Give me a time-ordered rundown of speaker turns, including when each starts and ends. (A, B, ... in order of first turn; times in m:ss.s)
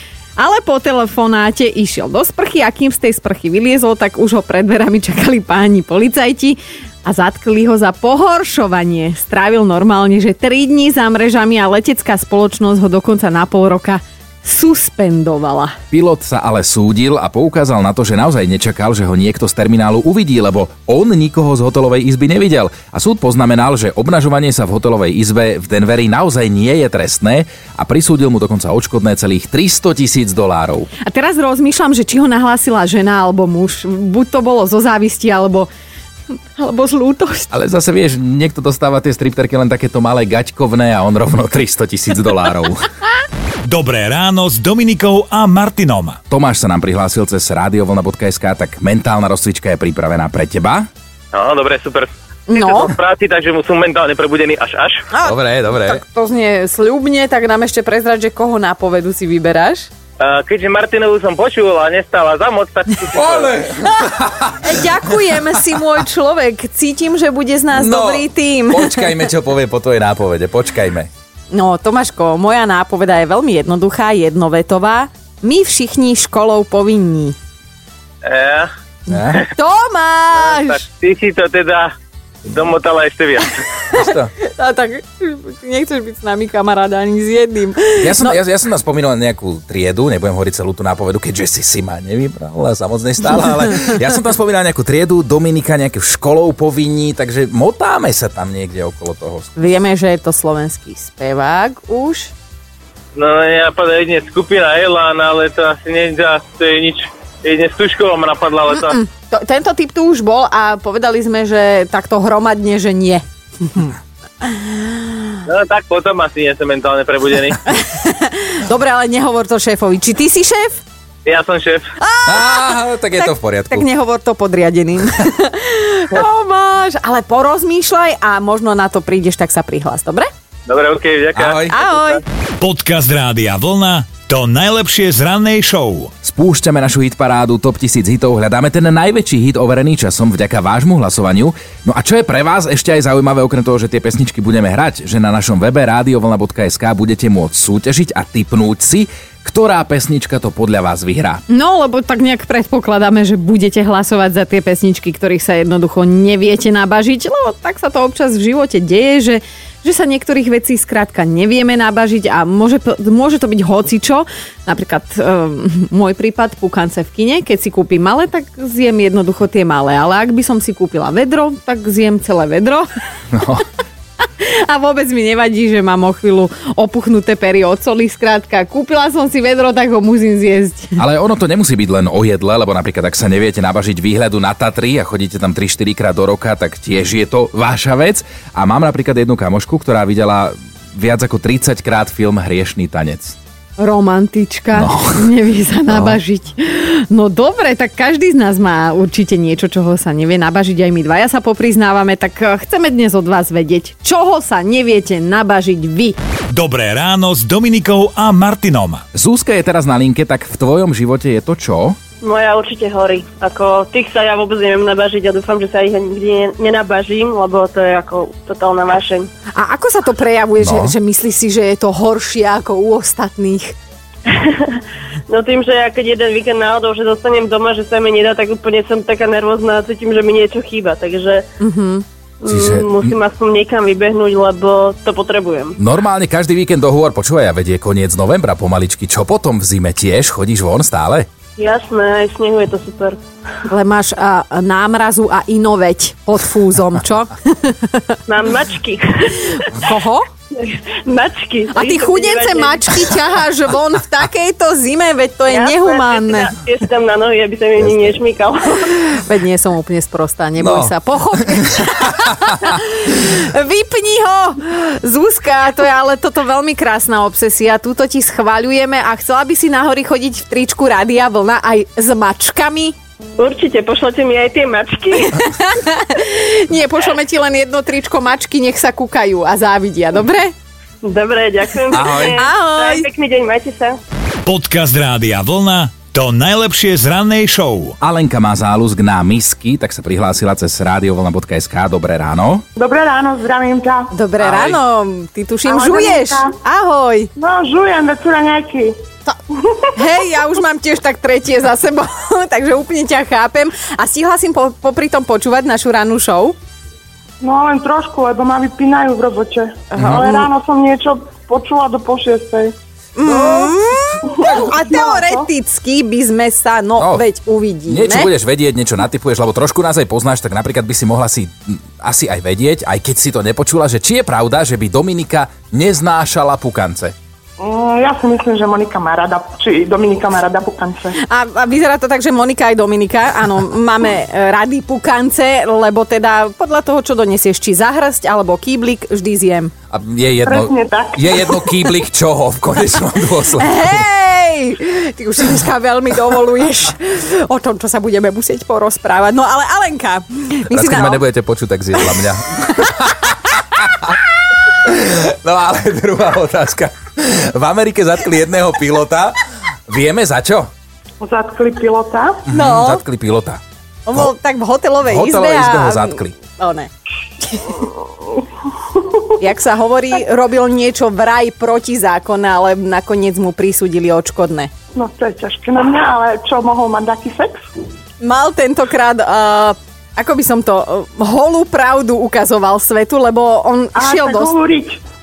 0:00.4-0:15.7 A
0:15.9-0:30.9 B
0:31.0-0:35.7 A
0:36.3-0:37.5 A
0:37.5-0:42.9 B
0:43.6-0:46.2 C
0:46.3-0:50.9 B
0:51.3-0:55.0 D
0:52.5-0:52.9 A
0:55.1-0:59.9 A
0:55.2-0:56.0 B
1:00.2-1:03.6 D
1:03.1-1:04.7 B
1:04.6-1:09.2 A
1:07.7-1:11.1 B
1:11.5-1:17.4 A
1:18.2-1:18.7 D
1:19.1-1:19.4 B
1:19.5-1:20.8 A
1:20.4-1:21.9 D
1:22.5-1:23.5 D
1:23.9-1:28.4 A
1:24.0-1:24.3 B
1:28.0-1:39.5 B
1:39.6-1:42.3 A
1:43.2-1:49.0 D
1:48.8-1:55.3 A
1:55.5-1:57.6 D
1:57.7-2:00.8 A
2:01.2-2:01.9 D
2:02.0-2:10.3 A
2:02.3-2:03.9 B
2:10.7-2:11.6 D
2:11.4-2:11.9 B
2:11.7-2:12.2 A
2:12.6-2:16.1 C
2:16.2-2:31.4 B
2:31.5-2:52.9 A
2:53.3-2:53.6 B
2:54.4-3:01.0 A
3:01.0-3:13.4 B
3:13.8-3:26.2 A
3:14.7-3:15.3 B
3:15.9-3:16.2 B
3:26.5-3:29.0 C
3:29.1-3:32.0 B
3:32.2-3:39.3 E
3:39.6-3:43.7 A
3:40.6-3:41.0 B
3:44.3-3:51.4 E
3:51.6-3:52.0 A
3:52.4-3:55.8 E
3:52.5-3:53.2 B
3:55.8-4:01.3 B
4:01.6-4:03.2 E
4:03.7-4:08.1 A
4:08.3-4:09.7 E
4:09.6-4:10.3 A
4:10.6-4:13.0 E
4:11.7-4:16.5 A
4:15.5-4:19.0 E
4:18.9-4:33.0 A
4:20.6-4:20.9 B
4:21.5-4:21.9 B
4:33.4-4:35.5 E
4:35.4-4:40.5 A
4:41.0-4:44.0 E
4:41.9-4:42.4 B
4:42.4-4:43.1 A
4:44.4-4:48.0 C
4:48.0-4:52.6 B
4:52.8-4:54.1 F
4:54.1-4:57.3 A
4:54.4-4:54.8 B
4:55.7-4:56.5 F
4:57.4-4:59.0 F
5:00.0-5:06.6 A
5:07.4-5:12.7 F
5:09.9-5:10.4 A
5:10.0-5:10.3 B
5:13.2-5:18.3 A
5:13.2-5:13.7 B
5:14.2-5:15.4 F
5:14.4-5:14.7 B
5:17.0-5:17.2 B
5:17.9-5:27.1 B
5:27.6-5:31.2 F
5:31.2-5:39.7 A
5:39.9-5:44.1 B
5:40.5-5:41.6 F
5:43.6-5:51.2 A
5:50.7-5:54.2 B
5:54.7-6:00.7 B
6:01.2-6:02.4 F
6:02.5-6:03.6 B
6:02.5-6:03.0 A
6:04.1-6:06.9 A
6:05.0-6:06.4 B
6:07.4-6:07.9 A
6:09.3-6:14.7 A
6:15.0-6:17.6 F
6:18.2-6:24.5 A
6:24.0-6:25.0 F